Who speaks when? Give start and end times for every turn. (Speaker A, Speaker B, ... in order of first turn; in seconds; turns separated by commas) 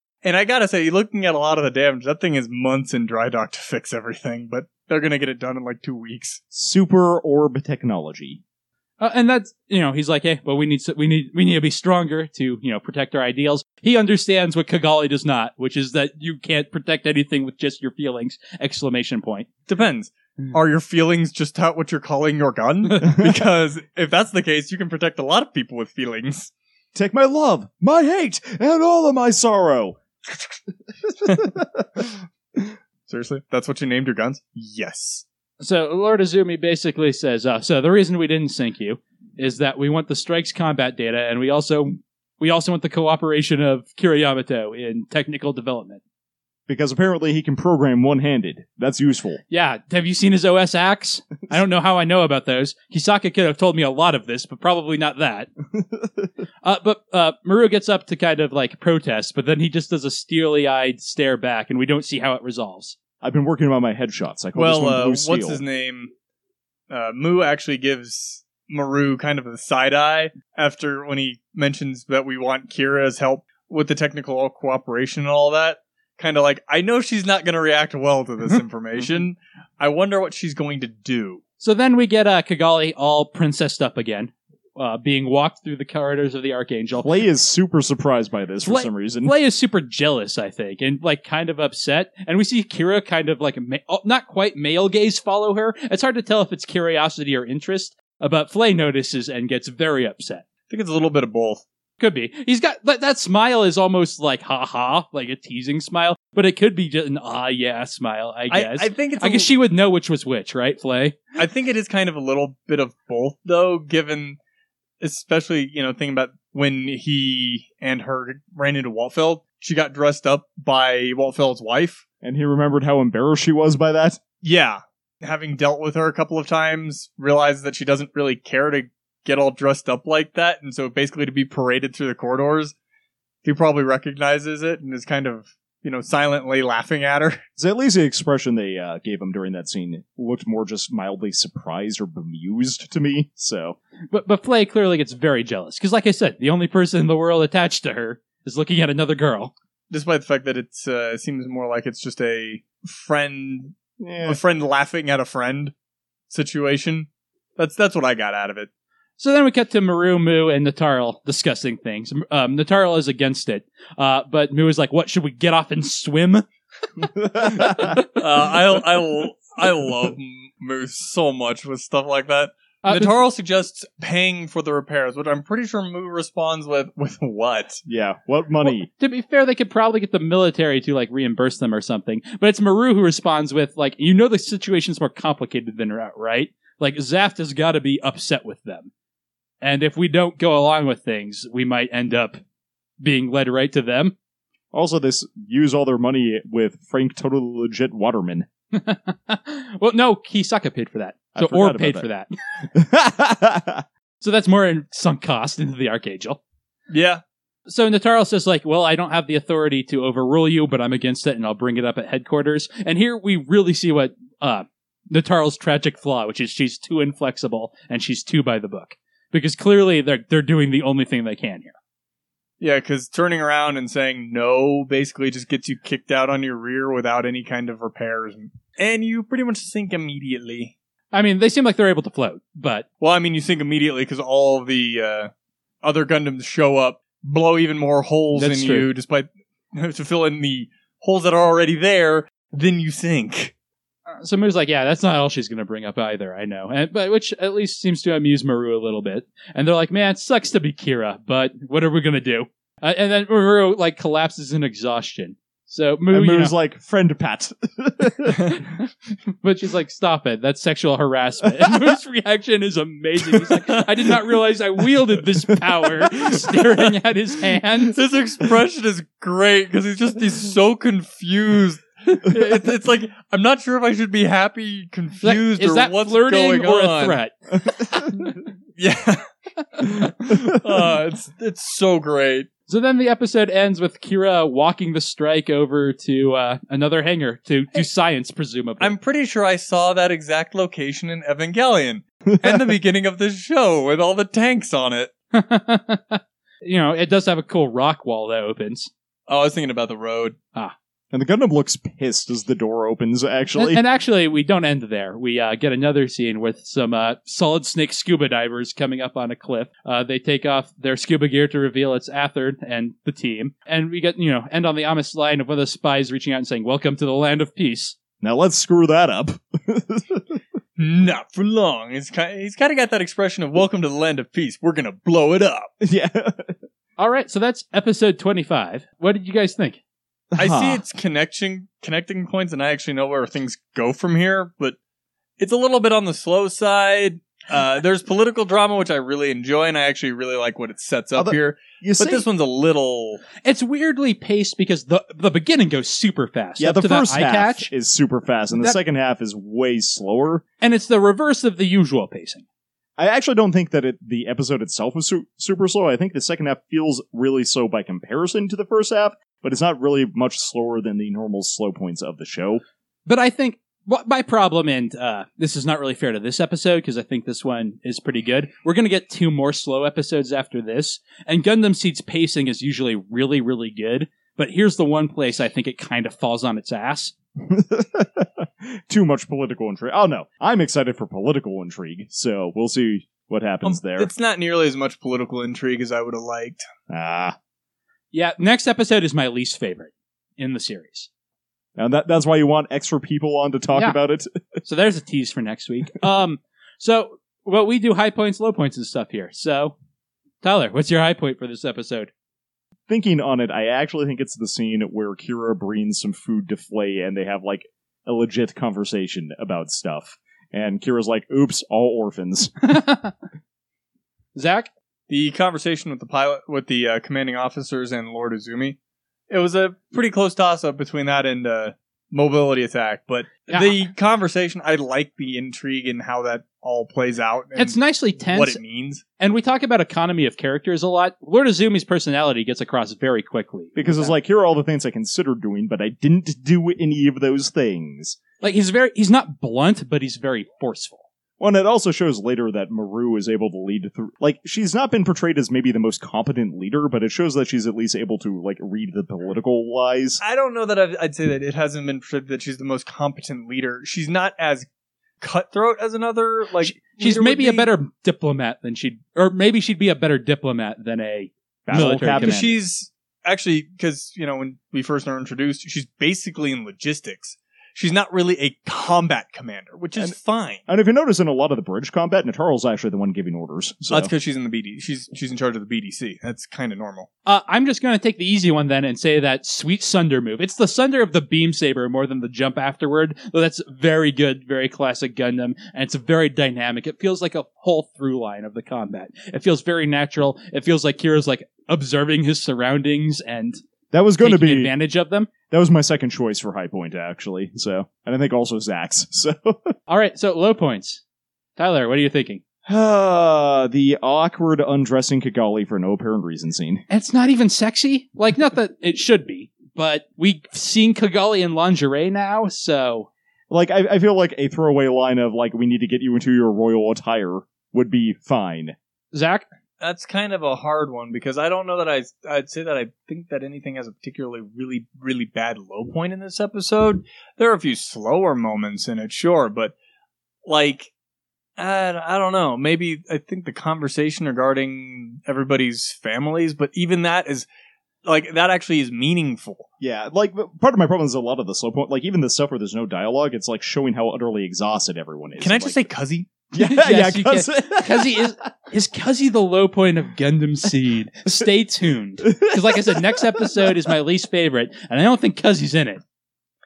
Speaker A: 0.2-6.4, Speaker B: 6.5-8.4, Speaker C: 9.0-19.5, Speaker A: 19.7-26.5, Speaker B: 26.9-30.0, Speaker B: 31.0-32.7, Speaker A: 33.1-35.2, Speaker C: 35.6-46.0, Speaker B: 46.7-49.4, Speaker C: 49.5-55.5, Speaker B: 55.8-56.3, Speaker C: 56.6-63.0, Speaker B: 63.2-65.6, Speaker A: 64.5-66.1, Speaker A: 66.9-81.4, Speaker C: 81.6-87.1, Speaker B: 87.0-89.3, Speaker C: 88.6-100.4, Speaker A: 100.7-101.6, Speaker C: 102.0-111.2, Speaker A: 108.5-109.5, Speaker A: 111.4-114.4, Speaker A: 115.0-122.0, Speaker B: 122.2-124.2, Speaker A: 124.4-132.7, Speaker A: 133.4-137.4, Speaker B: 137.6-143.8, Speaker C: 144.1-149.5, Speaker A: 149.9-155.7, Speaker B: 154.0-154.4, Speaker A: 156.3-157.1, Speaker A: 157.6-158.7, Speaker C: 159.2-166.4, Speaker B: 167.2-168.0, Speaker A: 168.1-177.8, Speaker C: 172.8-173.1, Speaker B: 177.8-178.9, Speaker C: 178.6-188.9, Speaker C: 189.6-192.4, Speaker C: 193.0-194.1, Speaker B: 194.7-198.5, Speaker C: 198.7-202.3, Speaker B: 201.3-202.1, Speaker B: 202.7-203.8, Speaker C: 204.2-206.4, Speaker A: 206.9-207.2, Speaker C: 207.7-221.7, Speaker A: 222.6-230.7, Speaker C: 231.1-232.8, Speaker A: 233.0-235.3, Speaker A: 235.8-243.5, Speaker C: 238.3-238.9, Speaker C: 244.1-256.5, Speaker B: 256.1-258.5, Speaker C: 259.4-267.9, Speaker B: 261.6-262.0, Speaker B: 265.4-266.4, Speaker A: 267.9-277.2, Speaker C: 275.2-278.1, Speaker A: 278.8-282.5, Speaker C: 282.7-288.9, Speaker A: 288.8-295.1, Speaker B: 292.3-292.6, Speaker C: 295.3-298.9, Speaker A: 299.3-300.4, Speaker B: 301.1-303.8, Speaker C: 303.6-317.9, Speaker B: 318.2-320.4, Speaker A: 320.8-325.7, Speaker B: 325.8-326.5, Speaker C: 327.0-329.8, Speaker B: 330.3-330.8, Speaker A: 330.4-334.8, Speaker A: 335.4-343.2, Speaker B: 341.1-342.2, Speaker C: 343.4-347.7, Speaker B: 346.6-350.4, Speaker C: 350.6-352.4, Speaker B: 353.0-362.6, Speaker C: 363.1-377.1, Speaker B: 377.4-384.1, Speaker A: 383.6-386.6, Speaker B: 386.9-387.4, Speaker C: 388.1-391.1, Speaker B: 391.8-394.3, Speaker C: 394.6-399.8, Speaker C: 400.4-402.1, Speaker B: 402.9-412.5, Speaker C: 412.6-413.1, Speaker C: 414.3-414.7, Speaker A: 415.1-418.8, Speaker A: 419.3-429.0, Speaker C: 423.5-423.8, Speaker C: 427.6-428.6, Speaker C: 429.2-434.1, Speaker B: 433.7-438.2, Speaker C: 438.4-441.0, Speaker B: 441.4-450.2, Speaker A: 450.2-454.6, Speaker A: 455.2-457.7, Speaker C: 456.6-462.6, Speaker B: 461.6-462.5, Speaker A: 461.7-470.6, Speaker B: 470.7-474.1, Speaker A: 473.9-477.1, Speaker C: 477.2-493.6, Speaker B: 493.9-494.7, Speaker C: 494.2-495.3, Speaker B: 495.5-499.7, Speaker C: 499.9-501.0, Speaker C: 501.6-502.4, Speaker B: 502.6-506.8, Speaker C: 506.9-513.1, Speaker B: 513.5-518.7, Speaker C: 519.1-519.5, Speaker A: 519.8-529.7, Speaker A: 530.5-530.9, Speaker A: 531.6-537.5, Speaker A: 538.0-539.7, Speaker B: 539.8-545.8, Speaker A: 545.4-546.3, Speaker B: 546.5-548.3, Speaker C: 546.6-556.0, Speaker B: 552.2-553.8